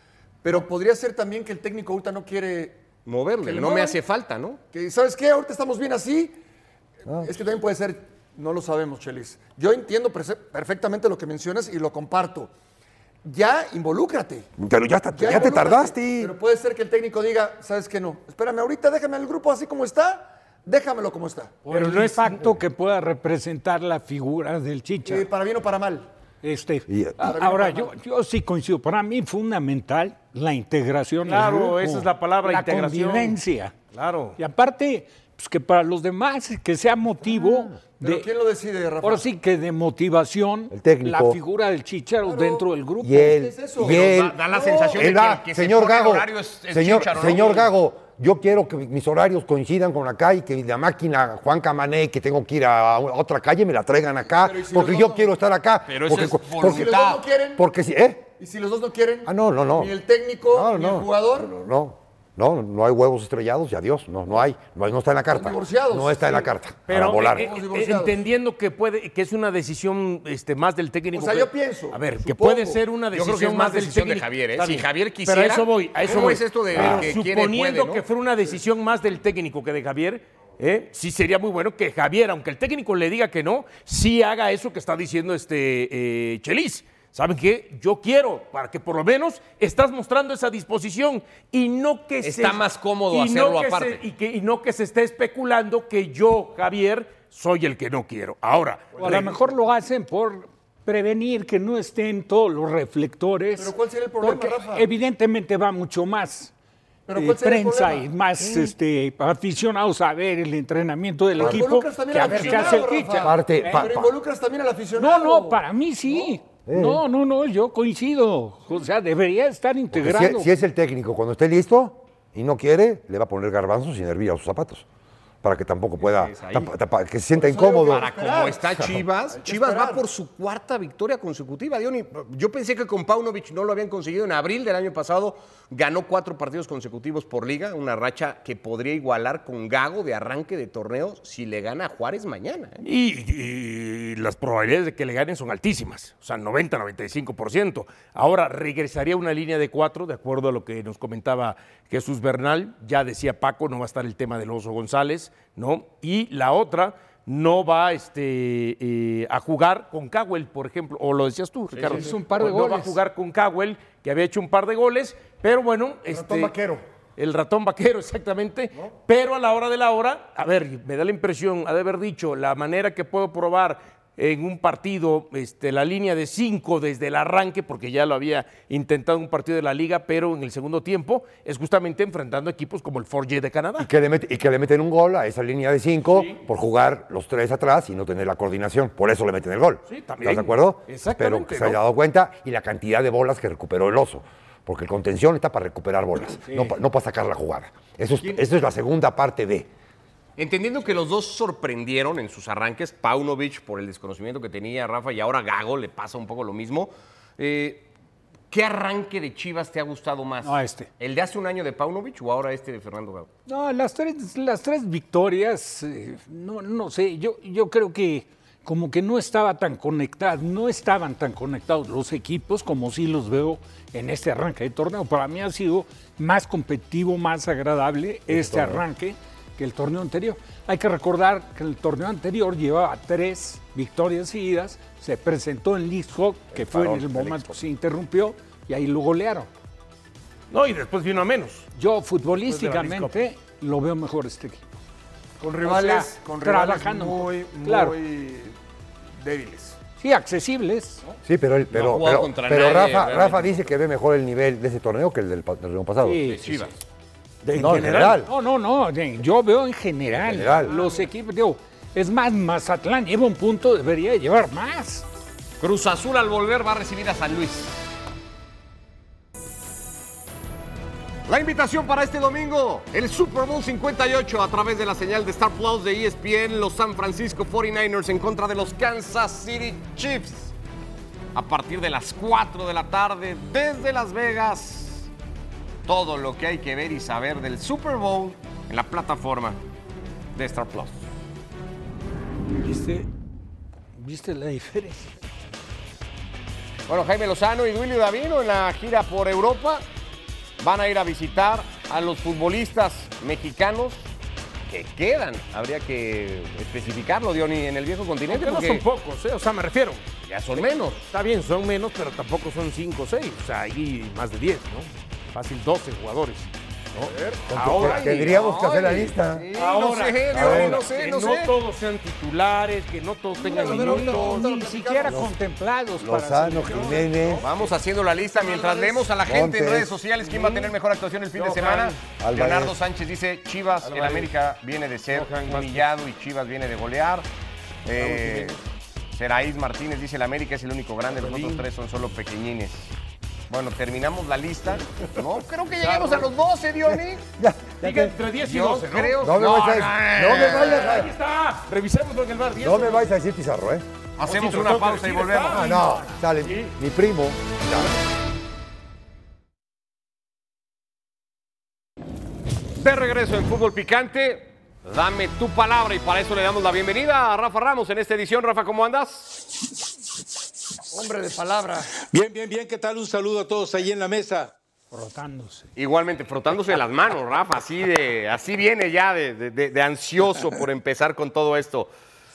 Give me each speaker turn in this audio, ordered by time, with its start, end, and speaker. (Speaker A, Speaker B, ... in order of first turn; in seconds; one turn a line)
Speaker A: 0.4-2.8
Speaker B: 3.0-4.6
Speaker A: 3.4-4.0
Speaker A: 4.7-6.4
Speaker C: 7.1-7.3
Speaker A: 7.1-12.5
Speaker A: 13.2-14.5
Speaker C: 14.6-16.3
Speaker A: 15.1-21.6
Speaker D: 21.7-25.2
Speaker E: 21.7-22.6
Speaker A: 25.0-26.1
Speaker D: 26.4-33.8
Speaker C: 26.9-27.1
Speaker A: 27.2-27.9
Speaker E: 31.2-33.4
Speaker E: 33.9-34.4
Speaker D: 34.4-38.3
Speaker A: 38.0-39.3
Speaker D: 39.0-43.4
Speaker C: 40.7-41.4
Speaker A: 42.2-45.1
Speaker C: 43.0-57.0
Speaker B: 43.8-47.7
Speaker A: 54.3-55.3
Speaker B: 55.9-57.2
Speaker A: 56.6-57.6
Speaker C: 57.6-58.3
Speaker A: 58.4-61.5
Speaker C: 59.2-59.9
Speaker C: 60.5-67.5
Speaker A: 65.3-66.5
Speaker E: 66.9-99.3
Speaker A: 67.2-68.2
Speaker A: 71.1-72.8
Speaker B: 73.1-78.1
Speaker B: 92.2-94.0
Speaker D: 99.0-106.5
Speaker A: 103.6-104.9
Speaker A: 107.1-108.1
Speaker D: 107.2-113.9
Speaker C: 108.4-108.7
Speaker A: 111.4-115.6
Speaker C: 111.4-111.6
Speaker C: 112.5-114.1
Speaker D: 115.0-120.5
Speaker C: 116.7-117.0
Speaker C: 119.9-124.8
Speaker C: 125.4-128.1
Speaker B: 126.0-126.7
Speaker A: 127.3-130.0
Speaker B: 127.8-142.8
Speaker E: 142.8-166.5
Speaker D: 161.8-163.0
Speaker A: 166.1-166.8
Speaker E: 167.2-183.9
Speaker C: 183.8-199.7
Speaker E: 189.9-191.8
Speaker D: 196.4-196.7
Speaker B: 200.4-207.9
Speaker B: 208.5-213.3
Speaker D: 210.4-210.9
Speaker D: 213.5-239.5
Speaker C: 228.3-228.8
Speaker C: 236.5-237.6
Speaker E: 240.5-241.7
Speaker D: 241.8-244.7
Speaker E: 242.4-243.1
Speaker A: 245.4-248.5
Speaker D: 245.6-248.0
Speaker A: 249.2-249.8
Speaker D: 250.0-251.0
Speaker C: 251.2-256.3
Speaker B: 251.7-253.7
Speaker D: 256.0-256.6
Speaker B: 256.2-256.7
Speaker E: 257.4-258.2
Speaker C: 257.6-258.3
Speaker D: 257.6-265.0
Speaker C: 260.2-260.7
Speaker B: 265.6-267.9
Speaker B: 271.3-280.5
Speaker B: 281.3-285.1
Speaker B: 285.9-289.6
Speaker B: 290.4-291.0
Speaker D: 292.6-293.1
Speaker D: 293.9-295.1
Speaker B: 296.9-299.8
Speaker B: 300.6-304.1
Speaker B: 304.7-308.8
Speaker E: 308.3-318.4
Speaker B: 310.2-311.1
Speaker A: 317.0-317.4
Speaker C: 317.5-319.5
Speaker B: 317.7-321.6
Speaker E: 319.5-324.4
Speaker C: 320.3-320.8
Speaker A: 323.4-325.3
Speaker D: 323.5-327.1
Speaker C: 326.0-327.5
Speaker A: 326.9-327.4
Speaker B: 327.4-337.3
Speaker A: 328.3-329.1
Speaker C: 329.2-330.0
Speaker E: 331.4-331.9
Speaker C: 332.2-332.8
Speaker E: 333.9-334.2
Speaker E: 335.1-335.9
Speaker B: 337.8-338.6
Speaker E: 338.0-338.4
Speaker B: 339.1-342.9
Speaker B: 343.5-347.2
Speaker E: 345.8-346.3
Speaker C: 347.4-348.1
Speaker E: 347.8-349.4
Speaker B: 348.4-351.1
Speaker C: 349.2-351.1
Speaker E: 350.2-353.1
Speaker C: 352.6-353.8
Speaker B: 354.2-355.8
Speaker E: 354.2-356.7
Speaker C: 355.5-357.9
Speaker B: 362.8-369.5
Speaker A: 370.9-371.9
Speaker F: 372.0-374.6
Speaker D: 374.9-375.7
Speaker B: 375.8-381.9